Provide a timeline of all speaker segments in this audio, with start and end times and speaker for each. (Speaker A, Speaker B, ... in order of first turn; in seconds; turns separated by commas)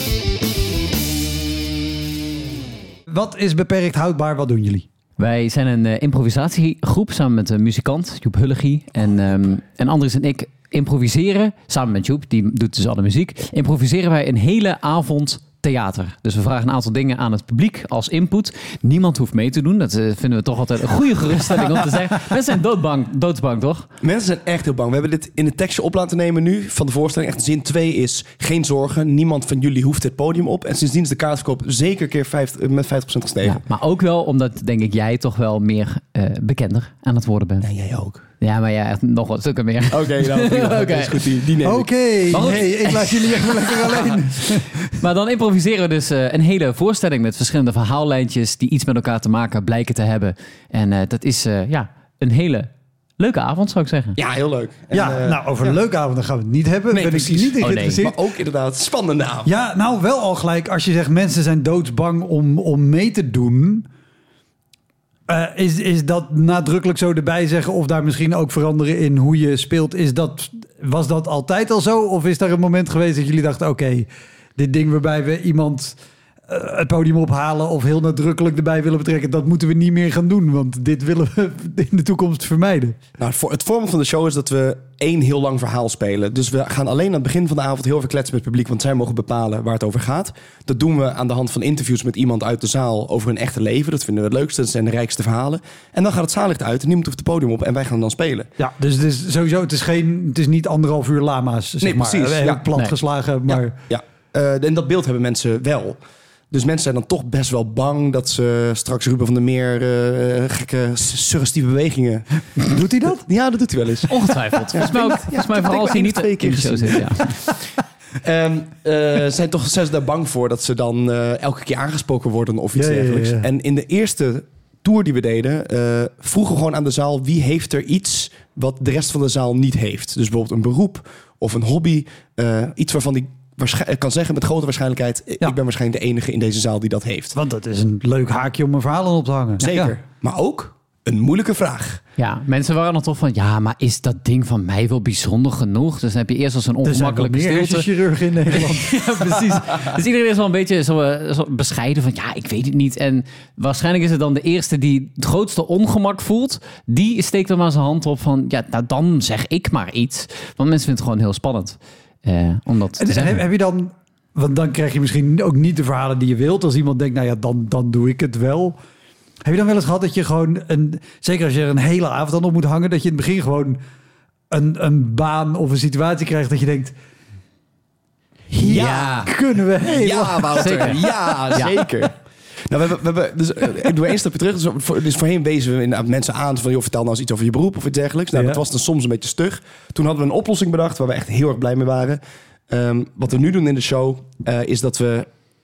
Speaker A: 3.1-4.9, Speaker B: 5.2-23.9, Speaker C: 24.0-33.6, Speaker B: 33.4-37.7, Speaker C: 37.6-38.2, Speaker B: 38.4-41.3, Speaker C: 39.9-42.5, Speaker A: 41.6-45.0, Speaker B: 42.3-44.1, Speaker B: 45.0-54.2, Speaker C: 54.2-55.8, Speaker A: 54.9-58.1, Speaker C: 56.9-59.5, Speaker B: 57.6-58.1, Speaker A: 59.4-63.9, Speaker A: 65.3-83.0, Speaker C: 83.2-98.5, Speaker A: 98.6-103.8, Speaker C: 101.8-102.6, Speaker C: 103.5-106.0, Speaker C: 106.5-114.2, Speaker A: 112.7-113.2, Speaker B: 114.1-117.4, Speaker C: 114.7-117.6, Speaker C: 118.2-137.3, Speaker A: 122.8-123.5, Speaker A: 137.3-139.9, Speaker C: 139.6-142.0, Speaker B: 142.2-147.9, Speaker A: 146.8-149.4, Speaker B: 148.5-163.4, Speaker A: 163.0-168.8, Speaker A: 169.4-173.8, Speaker A: 174.5-176.9, Speaker A: 178.5-181.1, Speaker C: 178.6-179.3, Speaker B: 178.7-179.3, Speaker C: 179.8-182.1, Speaker B: 180.6-181.7, Speaker C: 182.7-195.3, Speaker A: 188.3-188.6